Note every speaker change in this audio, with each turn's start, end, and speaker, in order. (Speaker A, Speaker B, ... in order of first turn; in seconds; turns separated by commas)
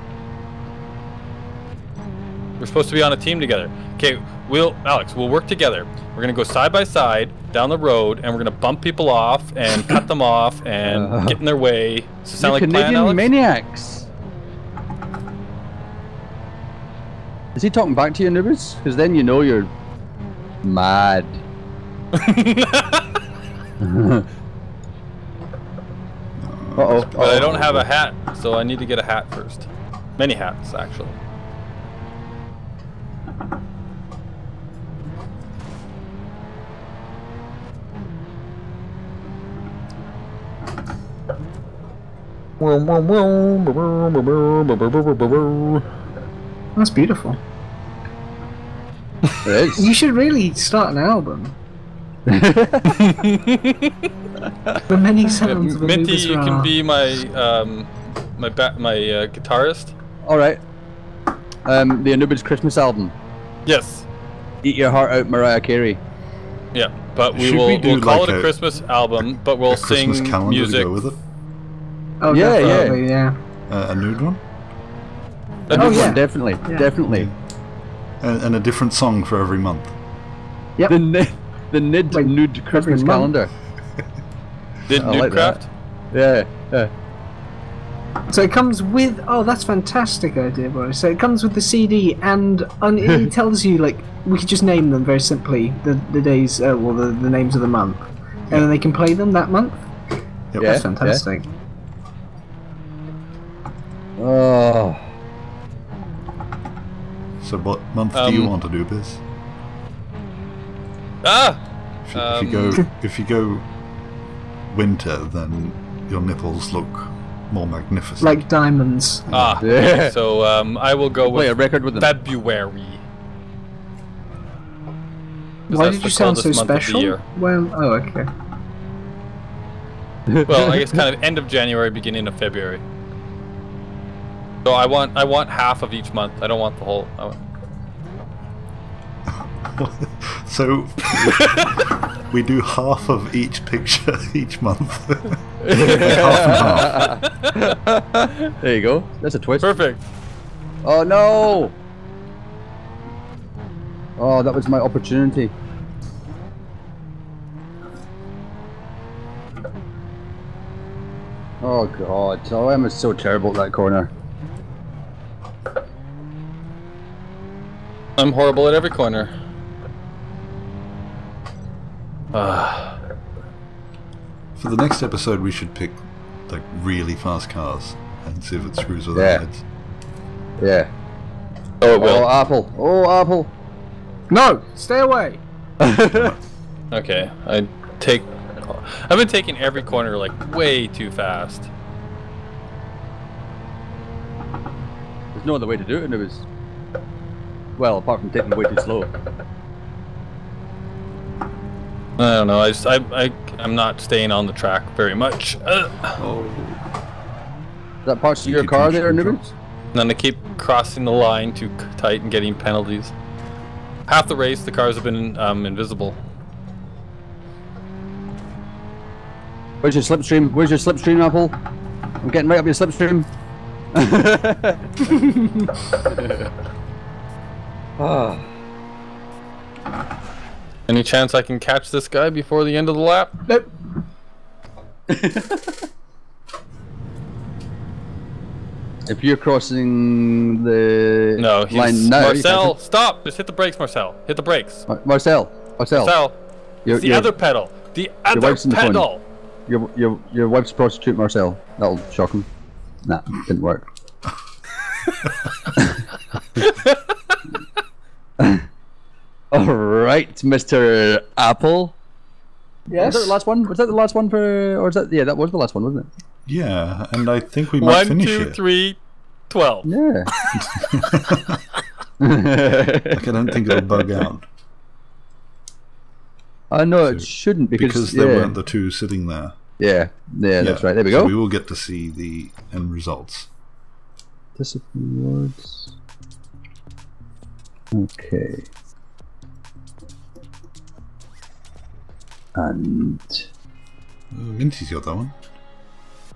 Speaker A: 2.6-13.3, Speaker B: 10.9-11.4, Speaker B: 12.4-14.1, Speaker B: 17.6-19.7, Speaker B: 20.6-21.4, Speaker A: 22.1-23.2, Speaker B: 23.8-24.3, Speaker C: 26.4-27.7, Speaker B: 26.8-27.9, Speaker A: 27.1-29.7, Speaker A: 30.2-31.2, Speaker A: 42.6-45.9, Speaker D: 46.8-47.4, Speaker B: 49.4-49.9, Speaker D: 49.8-51.5, Speaker B: 52.3-53.0, Speaker A: 52.9-54.0, Speaker D: 54.9-56.7, Speaker A: 55.4-59.9, Speaker B: 60.2-60.6, Speaker B: 61.7-63.1, Speaker A: 63.7-64.1, Speaker B: 64.6-66.0, Speaker A: 66.7-70.9, Speaker C: 67.3-68.5, Speaker C: 69.7-71.2, Speaker D: 72.2-73.4, Speaker B: 72.3-73.0, Speaker A: 72.6-73.0, Speaker C: 73.7-74.4, Speaker A: 75.7-76.2, Speaker B: 75.7-77.3, Speaker D: 75.7-76.9, Speaker C: 77.1-77.3, Speaker C: 78.2-80.0, Speaker B: 80.9-83.5, Speaker D: 82.1-83.3, Speaker A: 84.9-85.7, Speaker B: 84.9-85.6, Speaker B: 86.1-86.9, Speaker D: 88.3-99.9, Speaker B: 93.0-93.3, Speaker C: 100.5-100.8, Speaker D: 100.6-101.5, Speaker B: 100.6-101.2, Speaker B: 104.2-105.0, Speaker C: 107.4-109.2, Speaker A: 108.1-108.5, Speaker A: 111.2-111.6, Speaker C: 112.1-113.7, Speaker A: 112.1-112.9, Speaker C: 114.7-118.5, Speaker D: 118.2-119.3, Speaker C: 119.3-119.6, Speaker A: 119.3-123.0, Speaker B: 119.6-120.2, Speaker B: 121.3-122.1, Speaker A: 125.7-127.2, Speaker D: 125.7-128.3, Speaker B: 130.3-131.0, Speaker A: 130.5-132.8, Speaker A: 134.6-137.4, Speaker C: 139.7-141.7, Speaker A: 141.4-141.8, Speaker C: 142.3-147.2, Speaker A: 145.7-147.8, Speaker B: 145.7-149.8, Speaker A: 149.6-150.0, Speaker B: 150.8-151.8, Speaker B: 154.2-155.5, Speaker B: 161.6-164.1, Speaker A: 168.2-169.3, Speaker A: 172.3-173.0, Speaker C: 174.6-179.7, Speaker B: 179.2-179.4, Speaker B: 180.6-180.9, Speaker A: 181.8-182.3, Speaker B: 182.0-183.5, Speaker D: 184.3-185.4, Speaker B: 185.8-186.3, Speaker C: 186.1-186.4, Speaker A: 186.9-191.7, Speaker B: 195.3-196.5, Speaker B: 197.8-199.2, Speaker A: 202.2-206.2, Speaker C: 206.2-206.8, Speaker B: 208.1-209.5, Speaker C: 208.4-209.4, Speaker A: 209.9-213.1, Speaker A: 214.1-216.2, Speaker B: 219.8-221.6, Speaker B: 222.2-223.3, Speaker B: 223.9-224.9, Speaker D: 225.1-225.7, Speaker B: 226.1-226.5, Speaker B: 228.0-228.5, Speaker A: 230.9-233.3, Speaker B: 235.1-235.9, Speaker B: 239.1-242.8, Speaker A: 241.4-244.9, Speaker B: 244.9-246.2, Speaker A: 245.9-249.2, Speaker B: 246.9-247.3, Speaker B: 248.3-249.1, Speaker B: 249.7-252.5, Speaker B: 253.0-253.8, Speaker B: 255.8-256.0, Speaker A: 256.6-257.3, Speaker B: 258.4-258.7, Speaker B: 259.5-262.0, Speaker D: 262.9-263.4, Speaker B: 263.0-266.1, Speaker C: 266.5-268.6, Speaker A: 267.8-269.0, Speaker A: 269.5-269.9, Speaker B: 269.9-270.3, Speaker C: 270.5-271.6, Speaker B: 272.2-274.2, Speaker C: 273.1-274.5, Speaker B: 276.7-278.6, Speaker C: 277.1-279.6, Speaker B: 279.8-281.3, Speaker C: 280.6-283.5, Speaker B: 284.6-285.9, Speaker B: 287.9-288.7, Speaker B: 292.6-293.5, Speaker C: 294.3-295.4